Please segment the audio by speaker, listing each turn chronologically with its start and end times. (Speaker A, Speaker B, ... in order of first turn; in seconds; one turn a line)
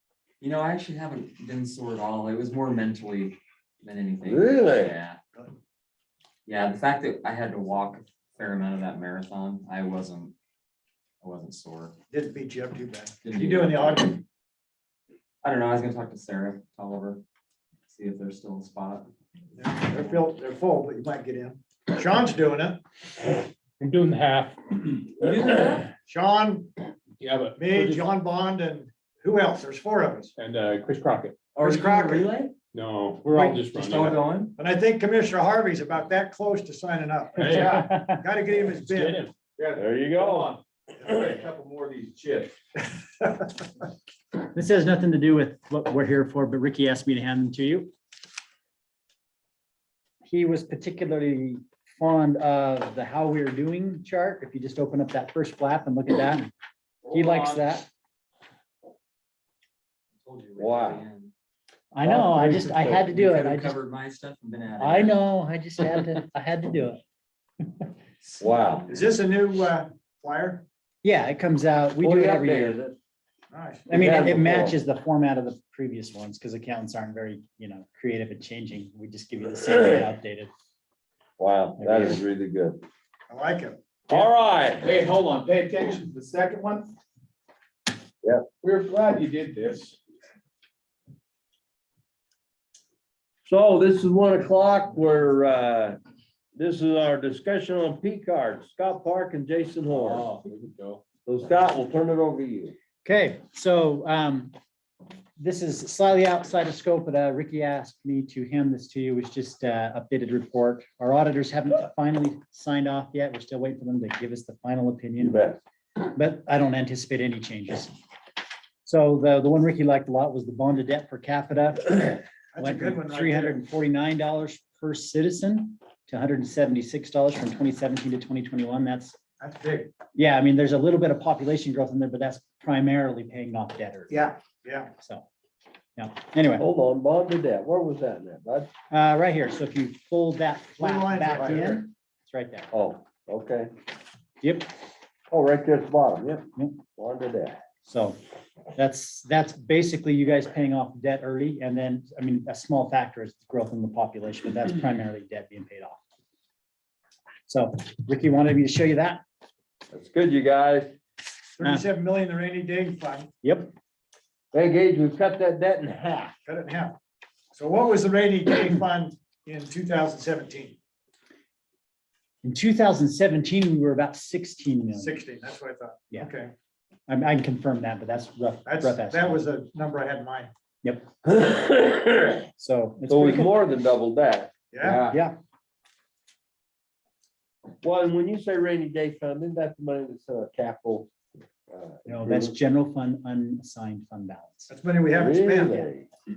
Speaker A: 0.4-5.2
Speaker B: 4.2-5.0
Speaker A: 6.5-10.3
Speaker A: 11.2-11.9
Speaker C: 12.1-14.2
Speaker A: 13.2-14.1
Speaker A: 15.4-17.2
Speaker A: 17.9-19.1
Speaker C: 19.6-22.8
Speaker D: 23.8-25.4
Speaker A: 25.2-25.9
Speaker C: 26.1-26.7
Speaker D: 27.2-28.0
Speaker C: 27.6-30.3
Speaker D: 30.4-31.4
Speaker A: 31.5-32.5
Speaker C: 31.6-32.3
Speaker D: 32.7-34.2
Speaker A: 33.3-34.5
Speaker C: 34.6-39.3
Speaker D: 37.4-37.7
Speaker E: 37.5-38.2
Speaker D: 38.8-39.3
Speaker F: 39.6-42.5
Speaker B: 39.8-40.6
Speaker E: 44.4-47.9
Speaker E: 50.2-56.5
Speaker A: 57.1-57.5
Speaker E: 57.1-57.9
Speaker A: 60.2-61.3
Speaker B: 60.6-61.0
Speaker E: 61.9-63.8
Speaker B: 62.0-63.0
Speaker A: 62.5-65.2
Speaker E: 64.8-67.0
Speaker A: 68.2-68.8
Speaker B: 68.4-68.8
Speaker C: 68.9-70.6
Speaker E: 71.0-72.8
Speaker B: 72.0-73.0
Speaker C: 73.5-73.9
Speaker E: 73.9-80.5
Speaker B: 73.9-74.8
Speaker B: 81.4-82.8
Speaker E: 81.8-82.2
Speaker C: 83.3-84.0
Speaker B: 84.1-84.9
Speaker F: 84.8-86.9
Speaker F: 88.6-90.0
Speaker B: 93.5-96.0
Speaker B: 96.5-100.3
Speaker F: 99.9-101.0
Speaker B: 101.2-102.7
Speaker E: 103.0-104.5
Speaker E: 105.4-115.4
Speaker B: 115.2-115.6
Speaker E: 116.0-117.9
Speaker E: 118.8-129.2
Speaker C: 122.5-123.6
Speaker C: 129.4-129.9
Speaker E: 130.1-134.2
Speaker C: 134.1-134.9
Speaker E: 135.0-135.3
Speaker E: 136.0-136.7
Speaker B: 136.6-138.7
Speaker E: 138.9-142.7
Speaker C: 140.8-141.8
Speaker B: 142.7-143.7
Speaker E: 144.4-144.7
Speaker B: 145.3-147.6
Speaker E: 147.9-148.2
Speaker E: 148.7-156.0
Speaker E: 157.5-159.2
Speaker B: 159.9-160.9
Speaker C: 161.6-163.3
Speaker E: 163.4-163.7
Speaker B: 164.5-166.3
Speaker C: 166.4-166.9
Speaker C: 167.5-170.8
Speaker E: 172.4-175.2
Speaker C: 174.9-176.5
Speaker E: 177.1-179.4
Speaker C: 178.7-180.5
Speaker E: 180.8-181.1
Speaker B: 181.2-182.5
Speaker E: 182.6-183.5
Speaker B: 183.1-185.1
Speaker C: 184.7-185.1
Speaker E: 185.1-185.4
Speaker B: 187.8-191.1
Speaker B: 191.7-192.5
Speaker E: 192.1-194.7
Speaker C: 194.7-195.8
Speaker B: 195.1-196.1